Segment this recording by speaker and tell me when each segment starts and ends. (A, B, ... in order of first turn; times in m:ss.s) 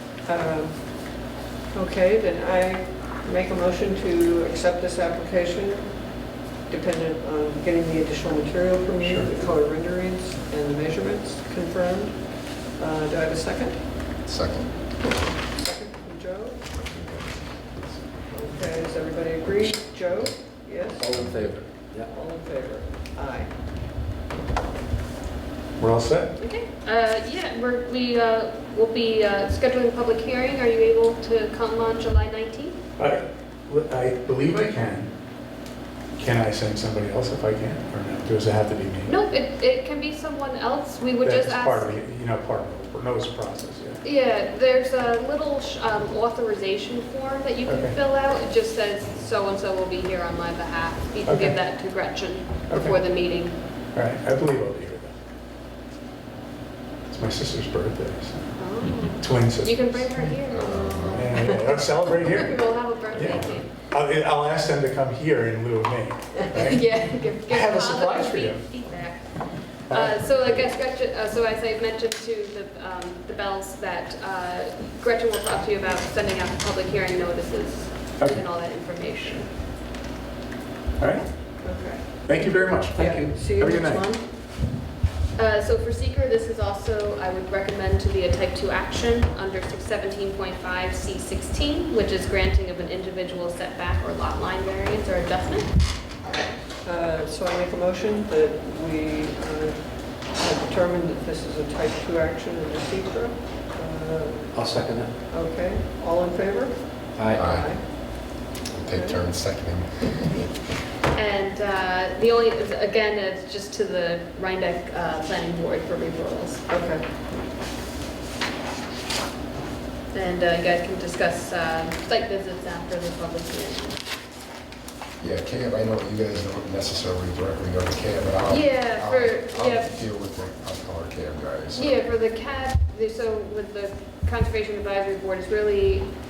0:00.2-0:06.1 A
0:06.7-0:13.8 A
0:09.0-0:09.3 B
0:14.2-0:14.7 C
0:15.4-0:16.6 A
0:16.7-0:18.4 C
0:18.3-0:21.2 A
0:21.0-0:22.1 D
0:21.1-0:21.6 C
0:22.0-0:23.5 A
0:25.8-0:26.3 B
0:26.4-0:32.8 E
0:33.0-0:35.1 B
0:36.2-0:39.1 B
0:39.1-0:41.9 E
0:41.2-0:44.0 B
0:44.0-0:53.6 E
0:47.7-0:48.0 B
0:51.2-0:51.6 B
0:52.7-0:53.0 B
0:53.9-0:55.1 B
0:57.0-1:00.3 B
0:58.6-1:03.7 E
1:00.5-1:01.3 C
1:01.1-1:08.7 B
1:06.5-1:19.5 E
1:09.9-1:10.7 B
1:21.0-1:21.3 B
1:21.6-1:24.2 A
1:22.2-1:24.1 B
1:22.9-1:23.5 D
1:25.4-1:35.7 E
1:36.8-1:44.6 A
1:44.5-1:45.1 D
1:45.3-1:48.3 A
1:47.1-1:47.5 D
1:47.3-1:47.7 C
1:48.7-1:50.5 C
1:48.9-1:49.2 A
1:51.1-1:56.6 E
1:56.7-1:57.0 A
2:00.1-2:04.0 E
2:05.2-2:12.0 C
2:08.5-2:09.9 E
2:11.7-2:16.1 E